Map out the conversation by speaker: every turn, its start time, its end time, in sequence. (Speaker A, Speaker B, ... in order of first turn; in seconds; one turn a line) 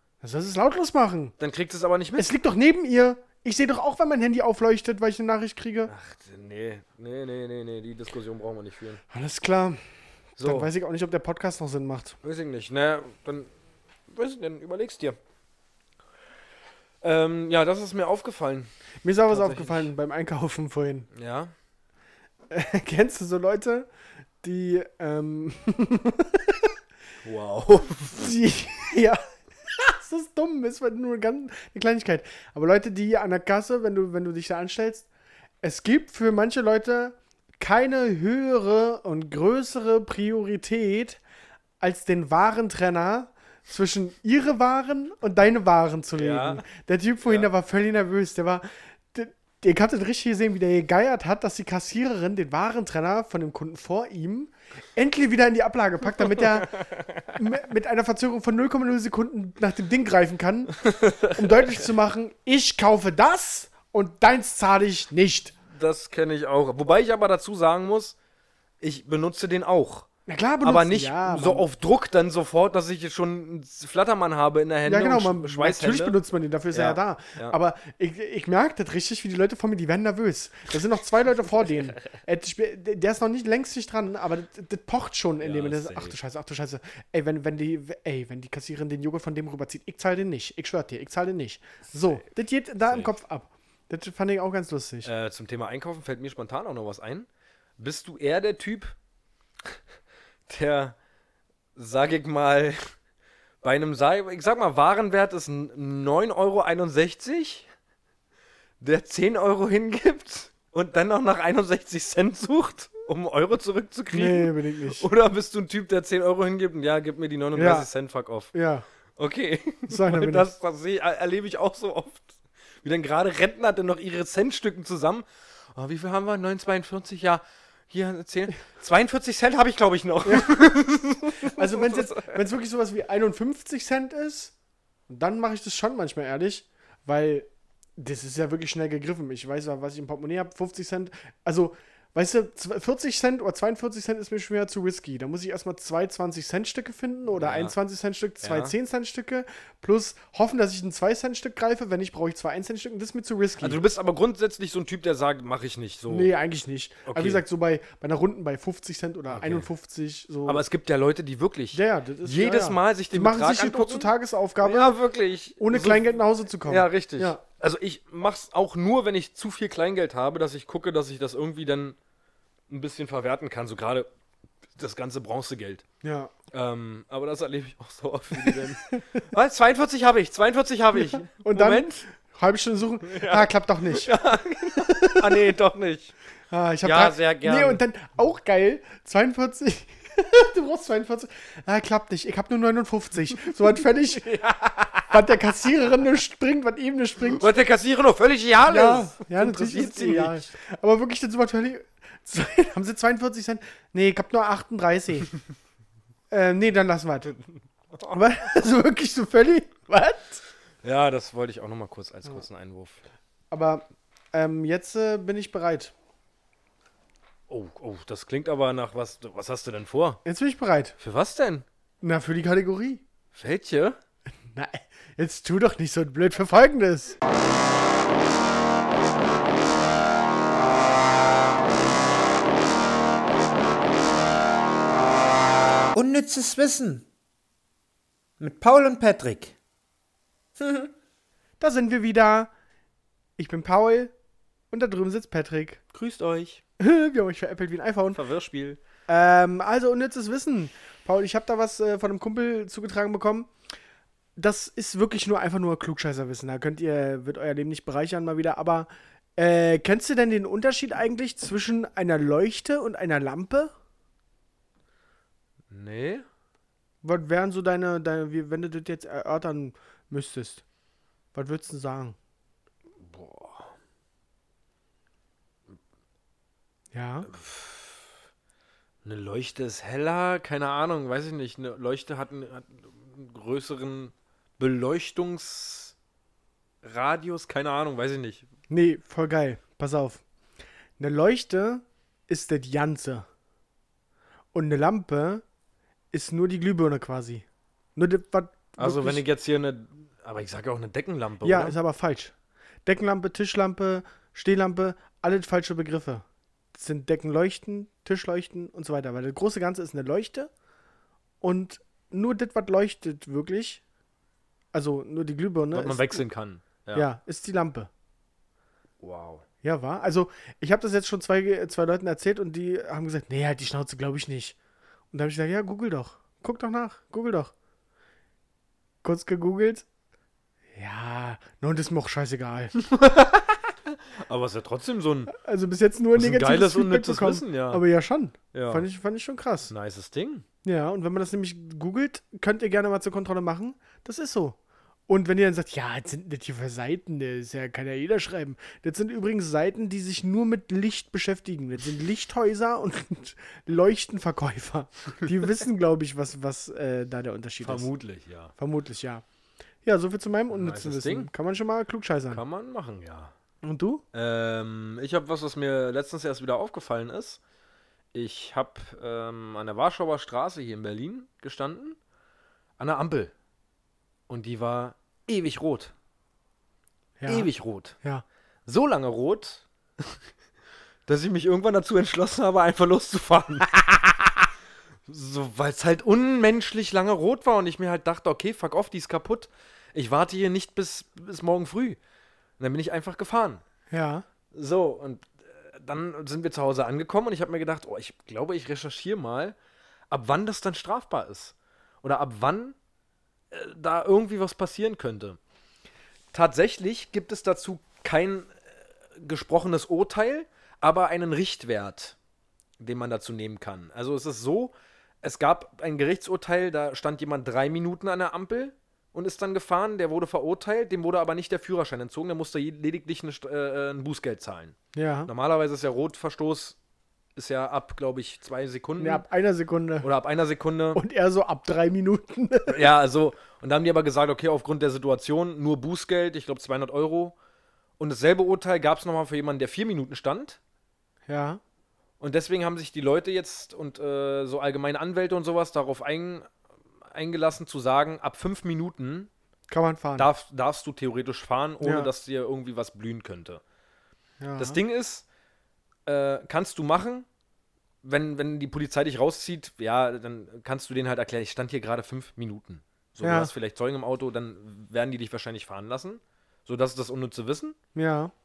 Speaker A: 0.2-1.4
Speaker B: 1.4-2.3
Speaker A: 2.2-5.9
Speaker B: 5.9-9.0
Speaker A: 9.1-9.8
Speaker B: 10.4-10.7
Speaker A: 10.4-12.2
Speaker B: 12.2-13.5
Speaker B: 14.1-15.2
Speaker B: 17.0-18.7
Speaker A: 19.0-21.1
Speaker B: 19.3-19.9
Speaker B: 21.1-21.5
Speaker A: 22.5-23.9
Speaker A: 24.4-26.7
Speaker B: 27.2-28.3
Speaker A: 28.2-35.1
Speaker A: 35.6-41.2
Speaker A: 41.8-65.5
Speaker B: 46.1-46.6
Speaker B: 56.2-57.3
Speaker B: 60.8-61.8
Speaker B: 65.7-68.2
Speaker B: 68.8-70.1
Speaker A: 70.3-71.7
Speaker B: 70.6-76.2
Speaker A: 74.9-95.1
Speaker B: 76.7-77.6
Speaker B: 85.4-86.2
Speaker B: 91.9-92.2
Speaker B: 92.9-93.1
Speaker B: 95.0-99.0
Speaker B: 100.5-101.0
Speaker B: 101.8-102.8
Speaker B: 103.6-107.7
Speaker B: 108.8-118.5
Speaker A: 114.1-115.1
Speaker A: 117.5-117.9
Speaker A: 118.5-118.9
Speaker B: 119.2-132.4
Speaker A: 119.9-120.5
Speaker A: 130.2-130.6
Speaker A: 131.4-134.5
Speaker A: 135.1-153.8
Speaker B: 147.3-147.7
Speaker B: 148.4-148.7
Speaker B: 153.6-156.3
Speaker A: 156.1-160.6
Speaker B: 157.1-157.4
Speaker B: 159.3-159.7
Speaker B: 160.5-172.0
Speaker A: 161.7-164.9
Speaker A: 165.6-167.4
Speaker B: 172.7-174.1
Speaker B: 174.8-175.8
Speaker A: 176.0-176.3
Speaker B: 176.5-182.1
Speaker A: 178.5-179.0
Speaker A: 181.0-184.1
Speaker B: 183.0-186.1
Speaker A: 184.8-185.4
Speaker A: 186.5-194.3
Speaker B: 186.8-187.8
Speaker B: 193.8-195.2
Speaker A: 195.1-197.5
Speaker B: 197.3-200.5
Speaker A: 198.7-205.3
Speaker A: 206.3-207.4
Speaker A: 208.1-210.4
Speaker B: 210.8-213.0
Speaker A: 213.5-215.9
Speaker B: 217.5-220.2
Speaker A: 220.2-221.0
Speaker B: 221.0-221.7
Speaker A: 222.0-223.0
Speaker B: 223.3-224.0
Speaker A: 224.5-227.2
Speaker C: 235.9-237.1
Speaker C: 238.4-239.6
Speaker C: 240.6-240.9
Speaker A: 241.6-242.5
Speaker A: 243.4-244.1
Speaker A: 244.7-245.8
Speaker B: 245.9-246.6
Speaker A: 246.8-248.2
Speaker B: 248.1-248.8
Speaker A: 249.1-253.5
Speaker A: 254.4-263.7
Speaker B: 265.7-266.3
Speaker A: 267.0-270.6
Speaker A: 271.3-272.2
Speaker B: 273.0-273.7
Speaker A: 276.9-277.3
Speaker B: 277.3-278.2
Speaker B: 279.0-285.9
Speaker B: 286.8-288.5
Speaker A: 288.7-290.2
Speaker A: 291.0-293.3
Speaker A: 294.5-295.4
Speaker A: 296.1-297.4
Speaker A: 298.0-299.2
Speaker B: 298.8-301.8
Speaker A: 301.4-302.3
Speaker A: 302.9-310.5
Speaker A: 311.4-313.8
Speaker A: 314.7-316.2
Speaker B: 315.7-317.1
Speaker A: 316.9-317.9
Speaker B: 319.0-319.5
Speaker A: 319.6-324.6
Speaker A: 325.1-327.5
Speaker A: 329.0-329.9
Speaker A: 330.8-332.7
Speaker B: 332.8-335.3
Speaker A: 335.3-339.7
Speaker B: 336.1-337.8
Speaker B: 338.5-338.9
Speaker B: 339.7-340.4
Speaker A: 340.6-344.6
Speaker A: 345.1-357.9
Speaker B: 357.6-358.5
Speaker A: 358.6-359.2
Speaker A: 359.9-362.4
Speaker B: 360.5-361.3
Speaker B: 362.3-363.3
Speaker A: 363.6-364.0
Speaker B: 364.1-367.4
Speaker B: 368.1-372.0
Speaker B: 372.8-373.3
Speaker B: 374.3-375.9
Speaker A: 377.2-377.5
Speaker B: 377.3-378.0
Speaker B: 378.7-380.2
Speaker B: 381.1-384.5
Speaker B: 385.1-392.0
Speaker B: 392.6-393.6
Speaker A: 393.9-394.2
Speaker B: 394.5-399.6
Speaker B: 400.1-402.8
Speaker B: 403.5-405.4
Speaker B: 406.3-408.6
Speaker B: 409.2-412.2
Speaker B: 412.8-424.8
Speaker A: 424.9-425.3
Speaker B: 425.3-426.8
Speaker B: 427.4-429.2
Speaker A: 429.0-430.1
Speaker B: 430.0-431.0
Speaker A: 430.9-432.9
Speaker B: 432.7-437.4
Speaker B: 438.0-440.6
Speaker A: 441.3-441.6
Speaker B: 442.2-446.5
Speaker B: 447.1-449.3
Speaker A: 449.7-450.3
Speaker B: 450.2-453.6
Speaker A: 451.8-452.1
Speaker A: 454.4-454.8
Speaker B: 454.6-455.2
Speaker B: 456.1-457.3
Speaker B: 458.0-467.8
Speaker A: 463.2-463.5
Speaker A: 467.9-468.3